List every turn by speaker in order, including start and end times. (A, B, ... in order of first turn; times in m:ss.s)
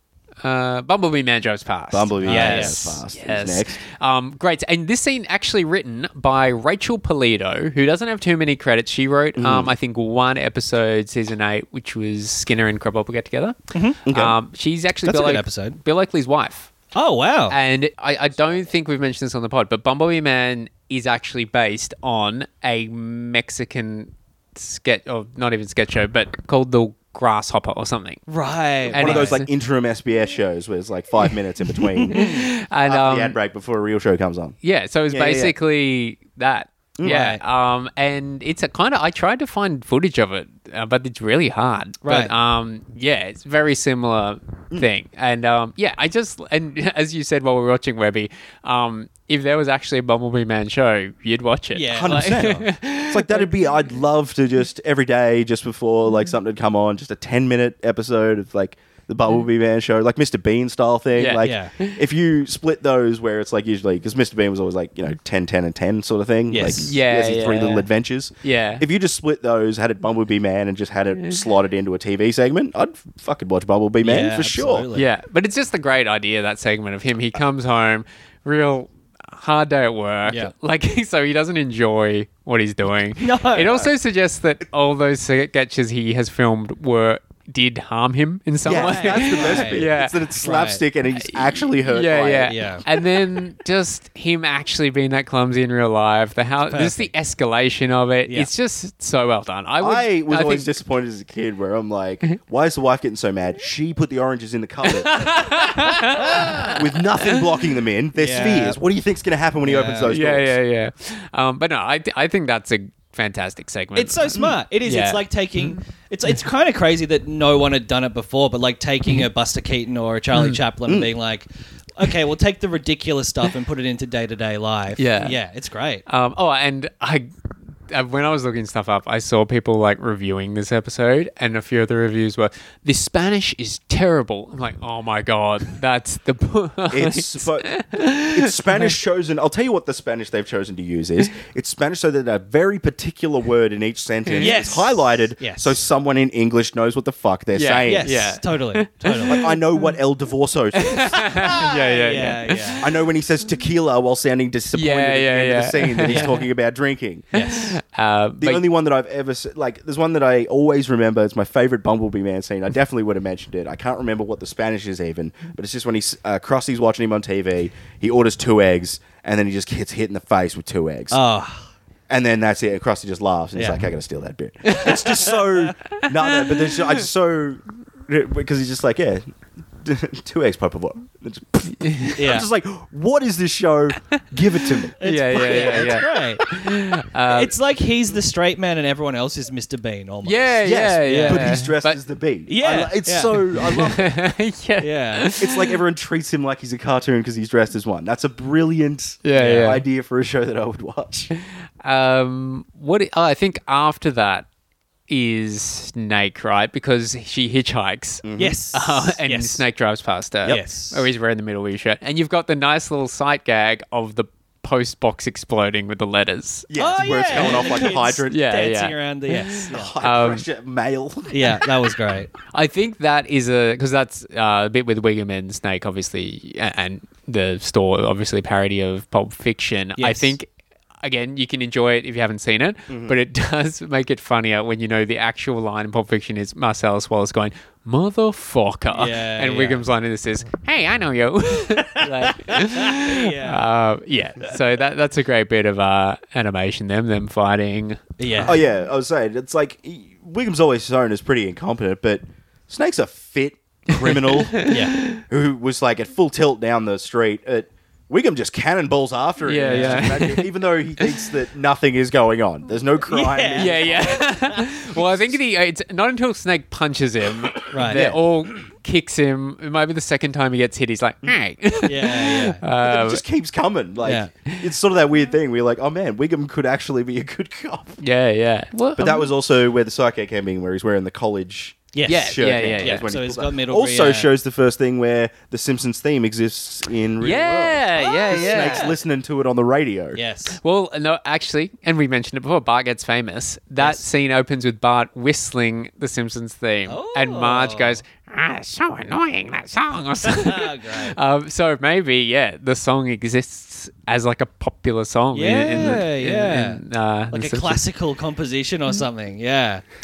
0:00.4-0:16.7 A
0:01.9-0:03.8 B
0:02.2-0:02.8 C
0:09.4-0:09.7 B
0:13.7-0:14.0 C
0:14.0-0:14.3 B
0:15.0-0:15.8 C
0:16.9-0:17.6 C
0:17.5-0:28.2 A
0:28.3-0:29.4 C
0:28.9-0:29.5 A
0:28.9-0:34.6 B
0:31.8-0:32.4 C
0:32.1-0:33.4 A
0:34.6-0:53.6 A
0:35.1-0:35.5 B
0:37.0-0:37.4 C
0:42.0-0:42.3 C
0:51.7-0:52.6 C
0:51.9-1:14.8 B
1:01.2-1:02.0 A
1:01.4-1:01.7 C
1:06.5-1:06.9 C
1:06.8-1:07.9 A
1:08.4-1:08.8 A
1:14.0-1:15.1 C
1:14.9-1:30.3 A
1:20.3-1:20.5 C
1:23.2-1:23.8 C
1:28.6-1:33.0 B
1:28.6-1:29.9 C
1:30.4-1:30.8 C
1:31.1-1:40.7 A
1:32.4-1:32.8 C
1:36.7-1:37.1 C
1:39.8-1:50.6 B
1:44.8-1:47.6 A
1:48.2-1:48.8 C
1:49.6-1:50.1 C
1:50.1-1:55.8 A
1:53.9-2:06.0 C
2:00.3-2:00.6 A
2:05.0-2:05.4 A
2:06.0-2:07.3 A
2:07.9-2:18.9 A
2:16.9-2:28.1 B
2:24.3-2:24.7 A
2:24.4-2:25.8 C
2:27.5-2:29.6 A
2:27.9-2:29.4 C
2:29.3-2:31.6 B
2:30.7-2:32.9 A
2:31.2-2:32.8 C
2:32.8-2:37.3 B
2:34.7-2:36.4 A
2:36.0-2:36.3 C
2:37.3-2:37.8 C
2:37.4-2:38.6 A
2:38.4-2:51.2 B
2:51.1-2:51.7 C
2:52.1-2:59.2 B
2:53.6-2:53.8 C
2:54.6-2:55.3 A
2:54.9-2:55.7 C
2:56.0-2:56.9 A
2:59.8-3:06.0 B
3:01.8-3:02.2 A
3:02.2-3:02.5 C
3:05.0-3:06.4 C
3:05.0-3:07.5 A
3:07.3-3:11.6 C
3:10.2-3:12.0 A
3:10.6-3:14.1 B
3:12.5-3:13.4 C
3:13.5-3:15.8 A
3:14.8-3:15.2 C
3:15.4-3:21.3 B
3:19.2-3:19.8 A
3:19.3-3:19.8 C
3:21.4-3:24.4 A
3:25.1-3:40.4 A
3:28.2-3:28.6 B
3:28.4-3:29.6 C
3:30.4-3:31.1 C
3:36.7-3:38.4 B
3:36.8-3:39.9 C
3:39.6-3:41.6 B
3:41.3-3:42.3 C
3:42.5-3:50.5 A
3:50.0-3:50.3 C
3:51.0-4:08.5 A
3:52.9-3:53.2 B
3:58.9-3:59.8 C
4:01.8-4:03.6 C
4:08.2-4:08.6 C
4:08.4-4:24.3 B
4:13.9-4:15.2 A
4:14.6-4:15.0 C
4:19.4-4:21.2 A
4:19.6-4:20.1 C
4:23.1-4:24.6 C
4:23.6-4:33.2 A
4:24.9-4:25.2 B
4:27.7-4:28.0 C
4:27.8-4:28.2 B
4:31.8-4:32.6 C
4:32.8-4:38.0 B
4:34.0-4:34.3 C
4:34.4-4:34.7 A
4:38.0-4:39.3 A
4:39.0-4:50.2 B
4:41.9-4:44.3 C
4:42.1-4:43.0 A
4:47.2-4:48.9 A
4:48.0-4:49.0 C
4:50.1-4:50.6 C
4:50.6-5:07.8 A
4:53.8-4:54.0 C
4:56.9-4:58.0 C
5:00.2-5:01.2 C
5:05.3-5:09.8 C